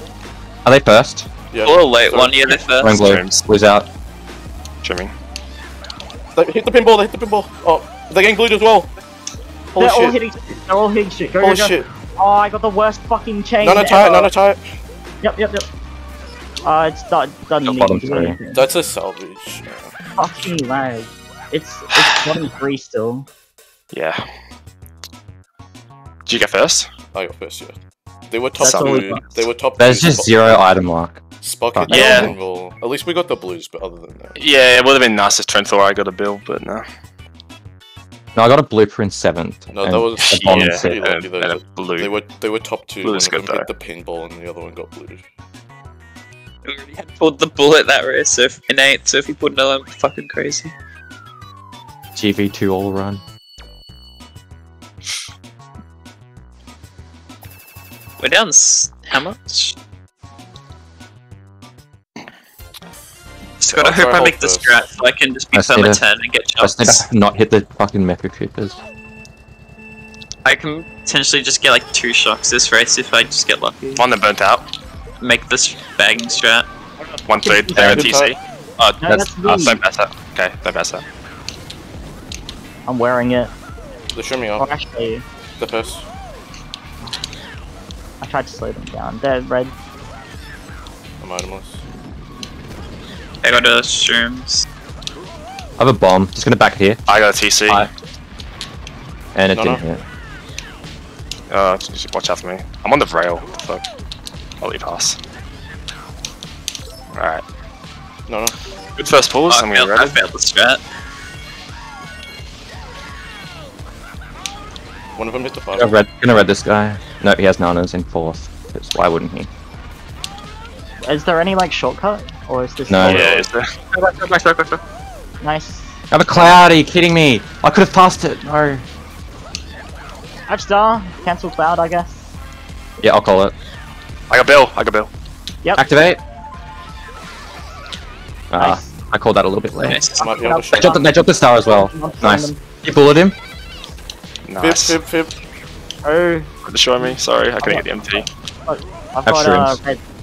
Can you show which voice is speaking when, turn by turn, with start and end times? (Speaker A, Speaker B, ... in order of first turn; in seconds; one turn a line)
Speaker A: 0.6-1.3
Speaker B: 1.5-2.5
Speaker C: 1.6-3.0
Speaker A: 2.8-3.9
Speaker D: 2.9-3.4
Speaker D: 4.8-5.1
Speaker B: 6.3-8.9
Speaker B: 9.7-10.2
Speaker E: 9.8-14.3
Speaker B: 11.4-11.9
Speaker B: 13.6-14.8
Speaker E: 15.2-15.7
Speaker E: 16.6-18.6
Speaker A: 17.6-18.4
Speaker B: 18.5-20.1
Speaker E: 20.2-23.3
Speaker D: 23.9-24.3
Speaker D: 26.2-26.9
Speaker B: 27.1-27.8
Speaker B: 28.3-30.8
Speaker D: 28.6-29.2
Speaker E: 28.6-29.2
Speaker A: 29.8-31.2
Speaker B: 31.4-34.4
Speaker A: 31.7-32.4
Speaker D: 31.9-32.3
Speaker D: 34.4-36.8
Speaker A: 38.3-41.0
Speaker B: 39.7-45.2
Speaker D: 40.3-42.1
Speaker D: 43.0-43.7
Speaker C: 46.6-50.7
Speaker A: 52.1-53.2
Speaker C: 58.2-59.8
Speaker C: 63.6-67.0
Speaker B: 63.7-64.8
Speaker A: 65.5-66.0
Speaker A: 66.6-68.8
Speaker C: 70.4-74.0
Speaker D: 74.0-74.7
Speaker C: 75.2-76.7
Speaker E: 77.0-78.2
Speaker D: 77.3-81.0
Speaker B: 77.7-78.4
Speaker E: 79.0-79.8
Speaker E: 82.8-83.5
Speaker B: 84.1-84.7
Speaker E: 84.6-85.2
Speaker B: 85.6-86.1
Speaker E: 88.2-89.7
Speaker B: 91.2-91.8
Speaker C: 93.4-94.7
Speaker A: 95.8-97.0
Speaker D: 97.1-97.9
Speaker A: 99.3-100.0
Speaker B: 99.5-99.8
Speaker D: 101.5-103.8
Speaker D: 104.6-105.2
Speaker D: 107.1-107.4
Speaker B: 108.3-108.5
Speaker D: 109.0-110.2
Speaker C: 109.5-110.8
Speaker B: 115.1-115.9
Speaker A: 115.7-119.5
Speaker E: 121.0-123.5
Speaker A: 122.9-123.3
Speaker D: 123.0-123.8
Speaker C: 123.9-124.8
Speaker E: 125.4-126.0
Speaker A: 126.1-128.8
Speaker E: 130.5-132.3
Speaker A: 133.0-133.5
Speaker D: 134.3-135.1
Speaker A: 135.8-136.2
Speaker A: 138.5-143.3
Speaker E: 138.6-138.9
Speaker C: 139.8-140.2
Speaker E: 140.2-142.6
Speaker B: 140.2-141.0
Speaker D: 144.5-145.0
Speaker B: 144.6-145.4
Speaker E: 146.0-150.0
Speaker D: 146.6-148.3
Speaker A: 149.2-149.8